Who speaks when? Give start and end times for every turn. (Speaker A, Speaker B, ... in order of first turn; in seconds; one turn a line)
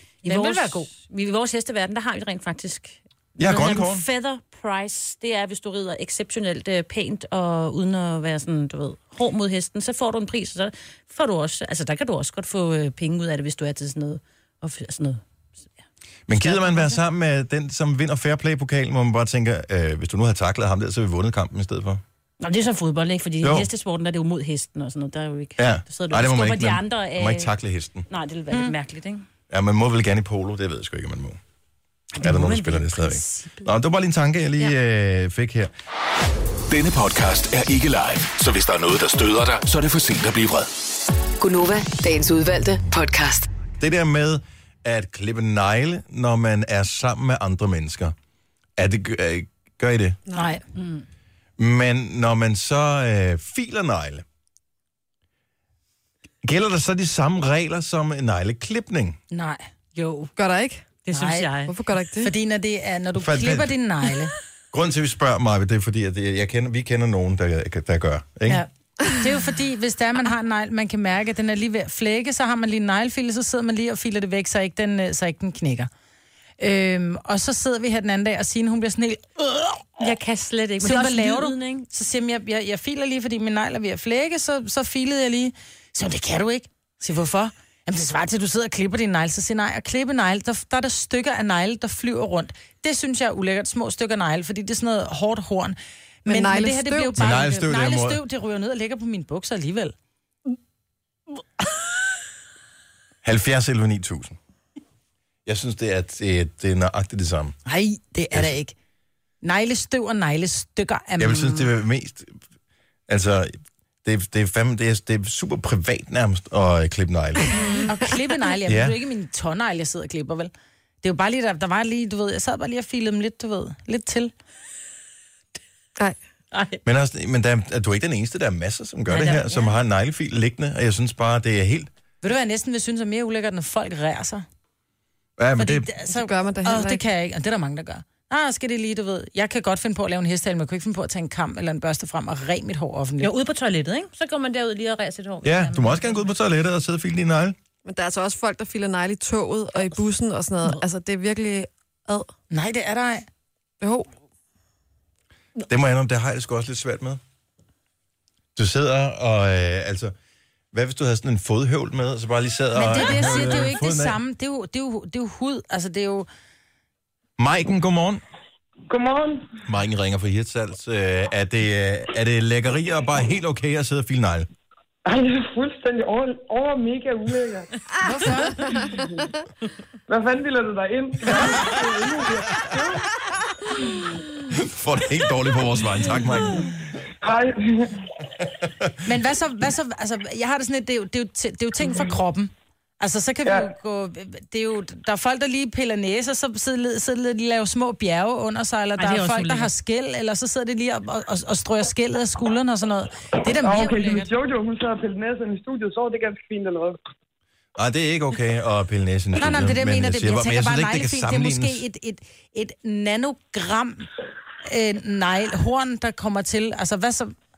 Speaker A: 0.2-15.2
Speaker B: 0.2-0.9
Speaker C: 3.4-4.0
Speaker C: 16.3-22.0
Speaker A: 16.3-17.0
Speaker A: 22.4-27.5
Speaker C: 23.4-23.7
Speaker C: 25.6-28.1
Speaker A: 28.1-29.3
Speaker C: 29.5-31.4
Speaker A: 32.2-33.7
Speaker C: 32.2-35.7
Speaker D: 36.7-40.7
Speaker E: 41.4-43.5
Speaker C: 43.8-48.1
Speaker C: 48.8-50.2
Speaker F: 50.3-50.5
Speaker B: 50.3-50.6
Speaker C: 51.6-54.2
Speaker C: 56.4-59.2
Speaker B: 59.3-60.3
Speaker F: 60.4-60.9
Speaker A: 61.1-61.7
Speaker B: 61.1-61.5
Speaker F: 61.7-62.3
Speaker B: 62.2-64.3
Speaker C: 63.1-63.8
Speaker C: 64.7-68.7
Speaker B: 68.5-75.9
Speaker B: 76.6-80.1
Speaker A: 80.0-81.9
Speaker B: 80.8-99.9
Speaker F: 96.3-97.3
Speaker C: 97.2-98.2
Speaker C: 103.2-104.4
Speaker C: 105.5-107.6
Speaker B: 107.7-108.8
Speaker B: 109.4-111.7
Speaker C: 111.2-112.3
Speaker C: 113.1-117.6
Speaker A: 117.5-117.9
Speaker B: 117.9-120.5
Speaker C: 118.7-119.0
Speaker B: 121.0-124.3
Speaker A: 126.5-126.8
Speaker C: 126.8-131.9
Speaker B: 129.1-129.4
Speaker B: 132.2-134.4
Speaker C: 135.4-135.9
Speaker B: 135.6-143.3
Speaker F: 136.1-137.0
Speaker A: 143.2-146.3
Speaker C: 145.4-147.6
Speaker F: 147.9-152.3
Speaker B: 152.5-153.3
Speaker F: 153.8-154.1
Speaker C: 155.7-157.2
Speaker C: 158.6-160.1
Speaker C: 160.7-164.2
Speaker B: 162.7-166.3
Speaker C: 167.4-168.2
Speaker G: 168.9-169.6
Speaker C: 169.7-174.5
Speaker G: 175.1-177.7
Speaker B: 178.0-178.7
Speaker F: 178.6-178.9
Speaker G: 178.7-179.3
Speaker G: 180.1-183.1
Speaker C: 184.5-186.7
Speaker G: 187.2-188.0
Speaker B: 189.1-204.3
Speaker A: 199.0-199.7
Speaker G: 203.6-207.0
Speaker C: 207.8-211.8
Speaker B: 209.4-214.1
Speaker B: 214.6-217.3